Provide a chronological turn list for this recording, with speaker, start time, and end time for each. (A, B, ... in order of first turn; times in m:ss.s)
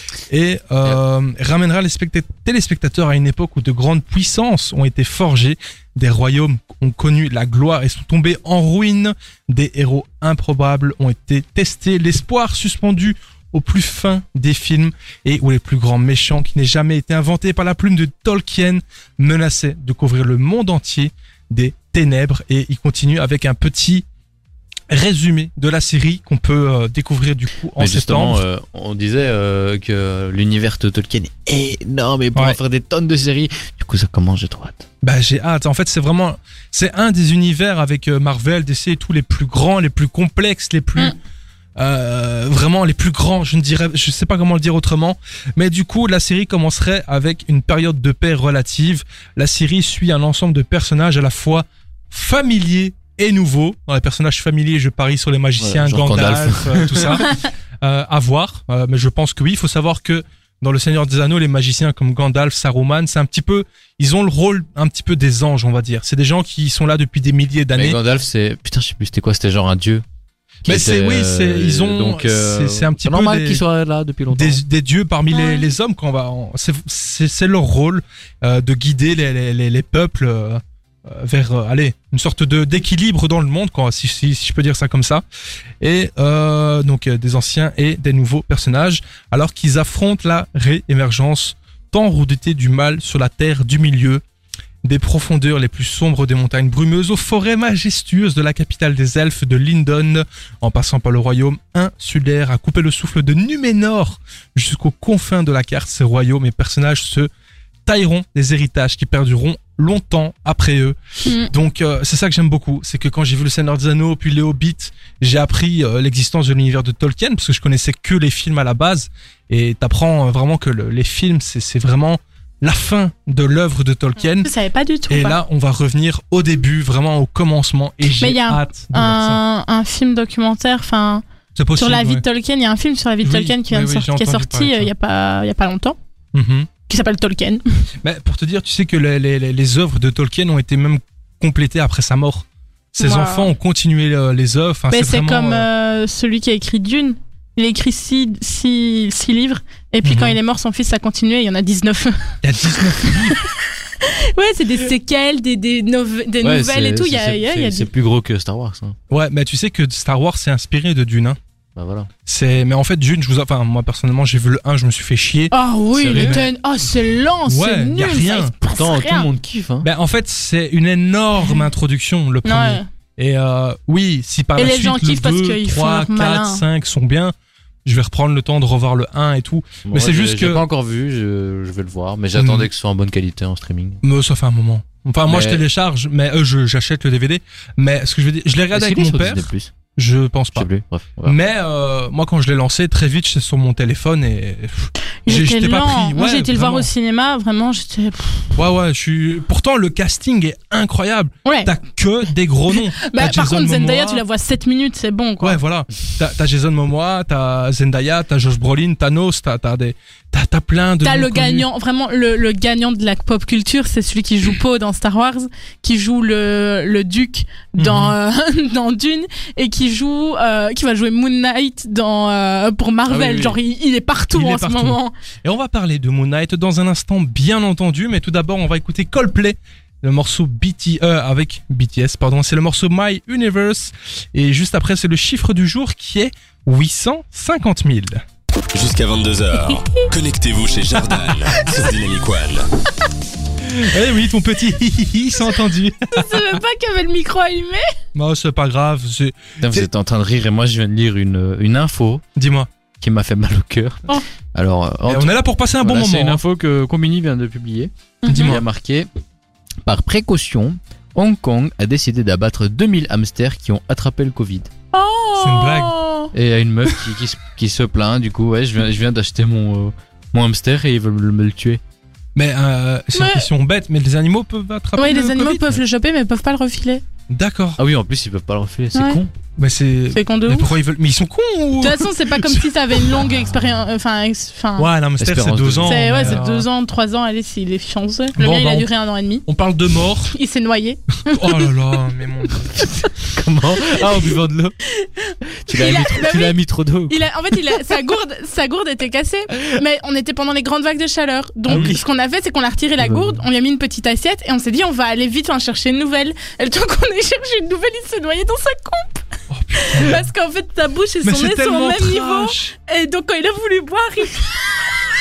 0:00.3-0:24.0 A
0:24.9-0:28.4 A
0:27.8-0:34.9 B
0:35.0-0:41.2 A
0:41.8-1:08.0 A
0:55.6-0:57.2 B
1:07.8-1:10.0 B
1:10.6-1:14.6 B
1:10.7-1:13.6 A
1:14.3-1:25.2 A
1:15.3-1:15.7 C
1:25.8-1:34.2 A
1:34.8-1:47.3 A
1:47.9-2:04.5 A
1:51.3-1:51.5 C
2:04.3-2:05.4 C
2:05.1-2:09.4 A
2:08.2-2:11.2 C
2:11.6-2:12.2 A
2:11.8-2:16.0 C
2:13.2-2:14.9 A
2:16.3-2:16.7 A
2:16.9-2:17.8 C
2:18.0-2:25.7 A
2:23.0-2:23.5 C
2:24.9-2:32.3 C
2:30.0-2:30.4 A
2:32.4-2:33.4 A
2:33.0-2:33.5 C
2:34.0-2:37.9 C
2:36.4-2:39.0 B
2:39.1-2:41.4 A
2:41.8-2:42.1 B
2:42.3-2:45.5 A
2:45.5-2:49.3 C
2:46.0-2:46.4 B
2:46.1-2:46.5 A
2:47.5-2:48.5 A
2:48.7-2:49.9 B
2:49.8-2:57.3 A
2:52.4-2:52.9 C
2:54.6-2:56.6 C
2:57.8-3:00.6 A
2:59.9-3:04.0 B
3:02.4-3:02.7 A
3:04.0-3:10.7 A
3:05.3-3:05.6 B
3:08.7-3:09.7 B
3:10.6-3:11.4 B
3:11.2-3:16.9 A
3:15.3-3:18.5 C
3:18.6-3:24.2 A
3:21.4-3:21.7 C
3:22.7-3:25.6 C
3:25.4-3:31.7 A
3:31.0-3:45.1 C
3:37.8-3:38.2 A
3:43.1-3:43.6 B
3:44.3-3:58.2 A
3:58.7-4:02.7 D
4:03.6-4:06.6 A
4:06.1-4:07.9 C
4:08.2-4:09.9 A
4:09.6-4:12.2 B
4:12.4-4:12.7 A
4:13.0-4:19.1 B
4:15.1-4:16.4 A
4:18.2-4:18.6 C
4:18.3-4:18.6 A
4:19.8-4:24.7 B
4:24.9-4:26.3 C
4:25.4-4:26.0 A
4:26.3-4:31.8 B
4:32.4-4:35.6 A
4:33.1-4:33.5 C
4:35.0-4:37.0 C
4:37.3-4:37.8 A
4:37.8-4:39.3 B
4:39.0-4:39.2 C
4:39.6-4:43.2 A
4:40.1-4:40.7 C
4:41.8-4:44.9 C
4:44.8-4:46.7 A
4:45.2-4:46.4 B
4:45.8-4:49.4 C
4:48.4-4:48.9 A
4:49.5-4:50.3 A
4:50.3-4:51.7 C
4:51.3-4:52.9 A
4:52.8-4:53.1 C
4:53.0-4:54.8 B
4:54.8-5:15.0 C
4:55.5-4:57.8 B
5:01.7-5:02.0 B
5:01.7-5:02.0 A
5:03.0-5:03.4 B
5:09.5-5:10.2 A
5:11.2-5:12.7 A